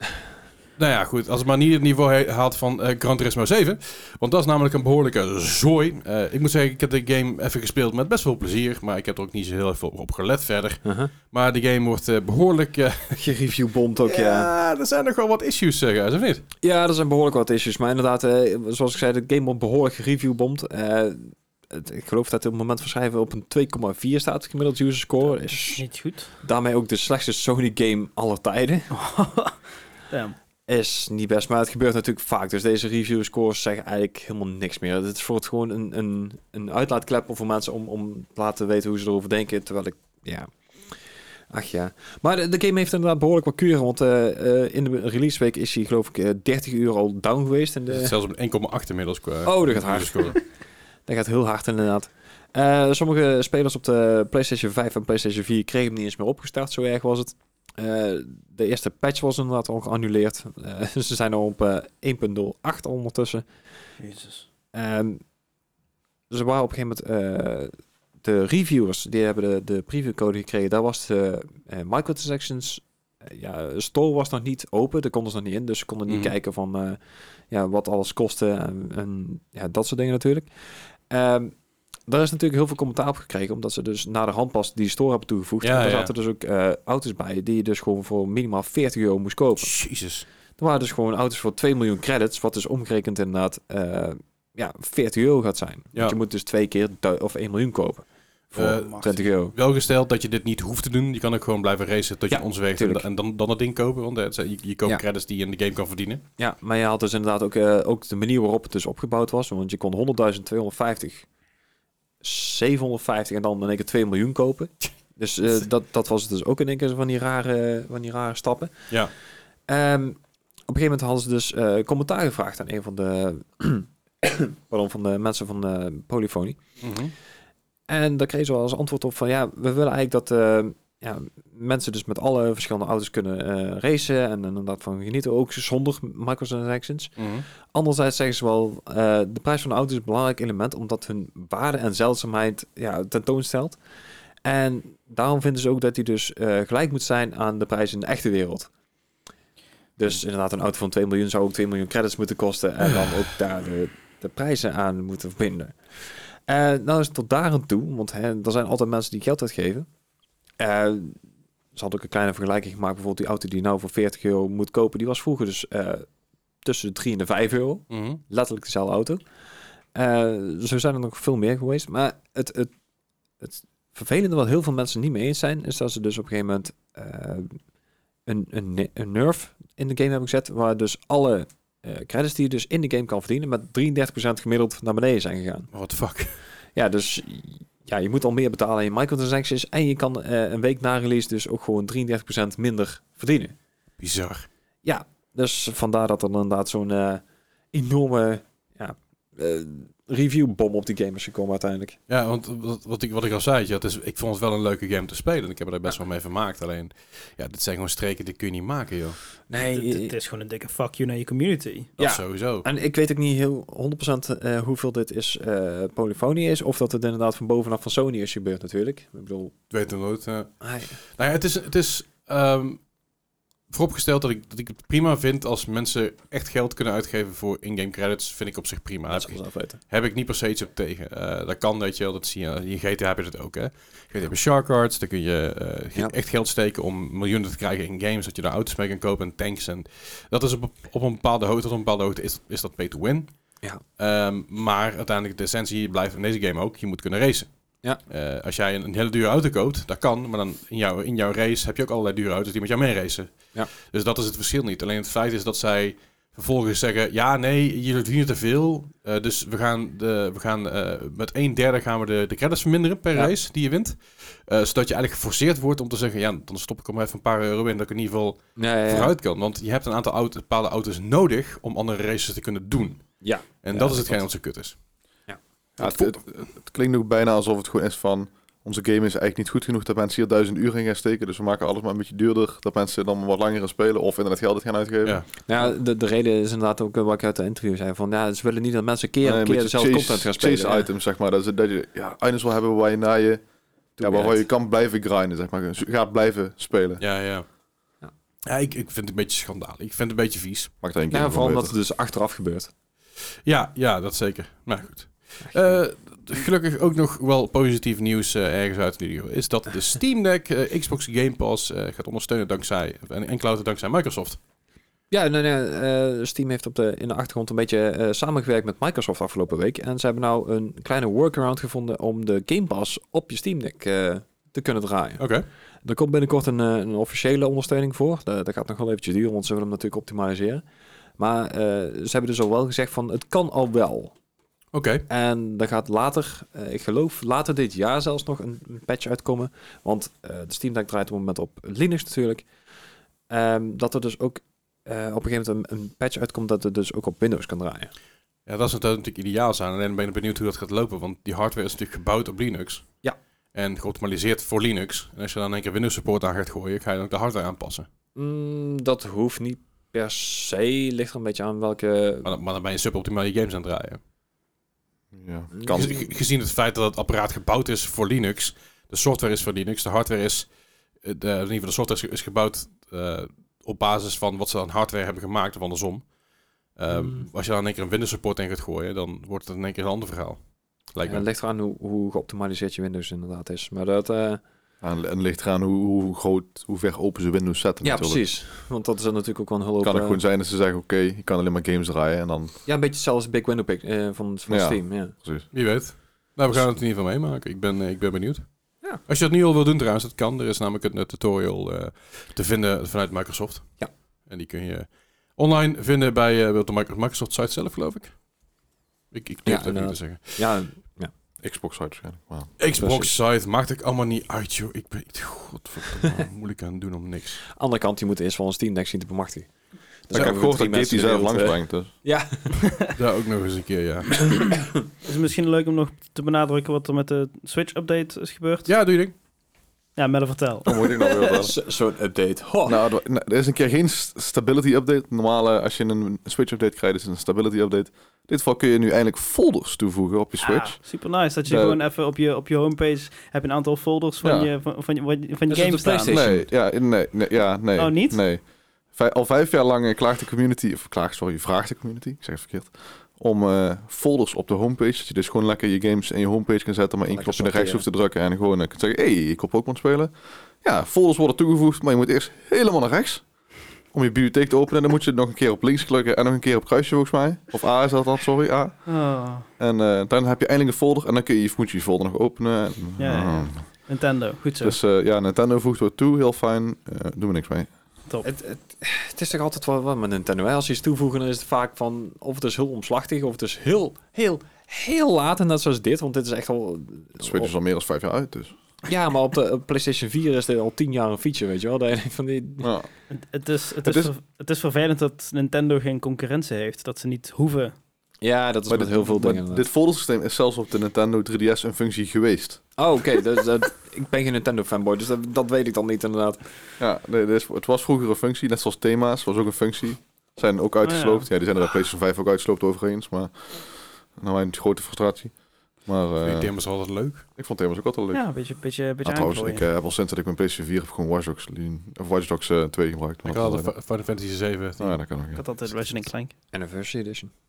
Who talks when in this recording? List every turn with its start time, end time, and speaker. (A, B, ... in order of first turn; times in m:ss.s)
0:00.8-0:13.2 A
0:10.8-0:11.1 B
0:13.1-0:14.5 B
0:14.0-0:16.4 A
0:16.6-0:25.8 B
0:25.7-0:26.3 C
0:26.4-0:28.9 B
0:28.9-0:30.4 C
0:30.7-0:48.1 B
0:47.9-0:50.4 A
0:49.4-0:50.4 B
0:51.0-1:03.5 B
1:04.0-1:04.5 C
1:04.7-1:05.2 B
1:06.3-1:21.6 B
1:16.1-1:16.3 A
1:22.1-1:29.7 B
1:25.6-1:26.1 A
1:29.6-1:30.2 A
1:30.6-1:39.5 B
1:38.5-1:46.2 A
1:42.3-1:43.0 B
1:46.4-1:51.3 B
1:52.2-1:58.9 B
1:59.7-2:06.6 B
2:06.8-2:07.1 A
2:07.9-2:23.8 B
2:17.2-2:17.4 A
2:24.4-2:28.7 B
2:30.0-2:39.9 B
2:40.6-2:41.2 B
2:41.7-2:46.1 B
2:46.6-2:49.2 B
2:47.9-2:48.2 A
2:49.9-2:52.7 B
2:53.4-2:57.6 B
2:58.2-3:05.7 B
3:05.7-3:06.4 A
3:06.7-3:13.5 B
3:14.0-3:14.5 A
3:14.8-3:22.0 B
3:22.1-3:29.2 A
3:29.5-3:30.1 B
3:29.6-3:31.9 C
3:32.0-3:32.7 A
3:32.0-3:39.5 B
3:39.7-3:42.8 A
3:40.6-3:41.0 B
3:43.7-4:03.3 A
3:49.1-3:49.8 B
4:04.0-4:34.8 A
4:28.6-4:29.1 B
4:33.2-4:34.2 B
4:35.8-4:45.2 D
4:45.0-4:45.3 A
4:45.4-4:50.9 B
4:49.2-4:53.4 D
4:54.0-4:54.4 B
4:54.0-4:57.0 D
4:57.0-4:57.5 A
4:58.4-5:00.7 A
5:00.8-5:01.7 D
5:01.1-5:02.7 B
5:03.4-5:14.4 A
5:05.5-5:05.8 B
5:15.1-5:25.3 B
5:25.2-5:25.4 A
5:25.8-5:30.6 B
5:31.2-5:34.1 B
5:34.7-5:35.0 A
5:35.1-5:42.5 B
5:43.3-5:47.9 B
5:48.4-5:52.9 A
5:53.5-5:57.9 A
5:58.1-6:02.3 B
6:02.2-6:04.0 A
6:05.1-6:06.0 D
6:05.6-6:06.0 B
6:05.7-6:10.5 A
6:11.0-6:16.1 A
6:16.7-6:21.2 A
6:16.9-6:17.3 B
6:21.0-6:24.4 B
6:24.8-6:28.2 D
6:27.8-6:30.2 B
6:29.8-6:32.6 D
6:32.6-6:35.1 B
6:34.5-6:35.5 D
6:35.5-6:38.5 A
6:39.0-6:48.2 A
6:49.1-6:50.5 A
6:49.4-6:51.1 B
6:51.4-6:52.6 D
6:52.6-6:57.4 A
6:52.7-6:53.1 B
6:57.5-6:59.5 B
7:00.1-7:02.7 B
7:00.1-7:01.9 D
7:02.9-7:04.4 A
7:05.0-7:08.7 C
7:08.6-7:09.1 A
7:10.0-7:11.2 C
7:10.6-7:11.5 D
7:11.3-7:12.8 B
7:12.6-7:20.8 D
7:20.4-7:26.2 C
7:21.4-7:21.8 D
7:24.2-7:24.5 D
7:25.5-7:26.5 B
7:26.1-7:43.3 D
7:27.8-7:28.2 C
7:37.1-7:37.8 B
7:43.9-7:48.9 D
7:48.8-7:49.5 C
7:49.6-7:53.6 D
7:53.0-7:54.8 C
7:54.6-7:57.7 D
7:58.2-8:07.5 B
8:07.2-8:08.5 D
8:08.8-8:12.7 B
8:12.6-8:12.9 D
8:13.1-8:17.7 C
8:13.8-8:14.1 D
8:18.2-8:19.6 B
8:18.7-8:22.7 D
8:22.8-8:26.4 B
8:26.8-8:36.7 D
8:30.8-8:31.2 C
8:36.2-8:37.2 A
8:37.4-8:38.2 D
8:38.1-8:39.7 C
8:39.0-8:43.7 D
8:43.2-8:45.0 A
8:44.8-8:45.6 D
8:45.3-8:46.3 C
8:46.5-8:47.3 B